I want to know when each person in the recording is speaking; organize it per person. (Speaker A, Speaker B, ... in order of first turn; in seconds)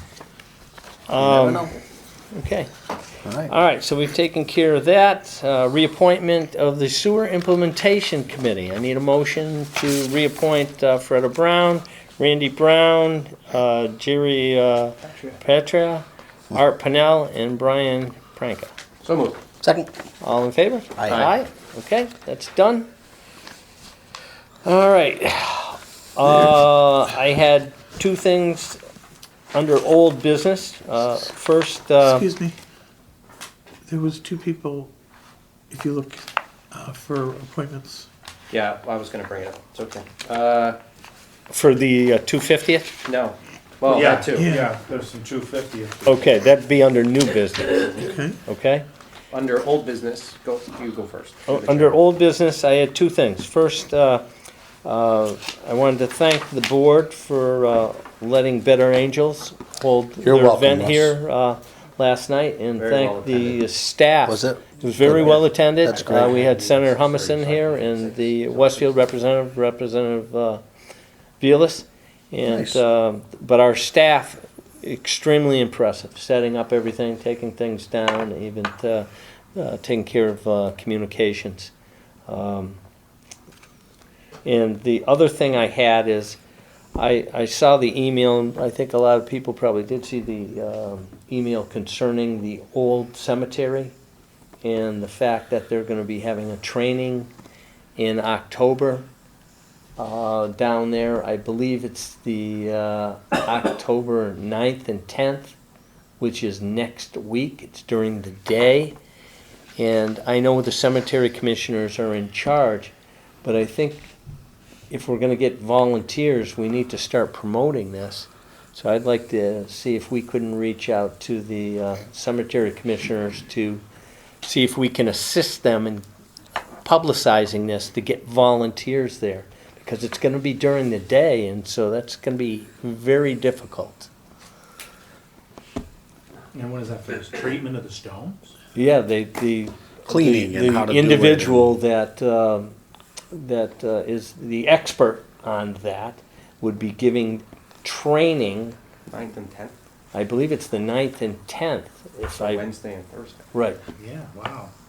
Speaker A: 1.1-1.7, 2.3-2.7, 3.5-18.7, 20.2-22.9, 24.6-28.8, 29.5-32.3, 41.5-42.9, 46.0-48.9, 51.5-54.2, 54.8-70.6, 71.4-81.7, 82.3-82.8, 84.4-86.4, 86.9-93.9, 94.6-97.3, 98.0-99.1, 100.0-105.5, 106.2-109.0, 109.8-112.9, 113.4-114.1, 114.9-123.8, 124.4-126.0, 126.8-134.1, 138.7-142.7, 143.3-148.8, 150.1-152.6, 153.5-153.8
Speaker B: 1.2-1.7, 3.2-3.5, 19.6-19.9, 21.0-21.3, 60.2-61.1, 64.2-66.4, 72.5-72.8, 140.1-141.7
Speaker C: 15.0-15.4, 19.0-19.4, 38.5-40.8, 43.0-44.6, 49.3-52.0, 62.8-63.6, 66.0-69.1, 149.1-149.7, 152.3-153.5
Speaker D: 32.0-32.5, 33.9-34.9, 35.7-38.1, 44.3-44.8, 48.0-48.4
Speaker E: 43.8-46.3, 136.5-138.5, 154.0-154.7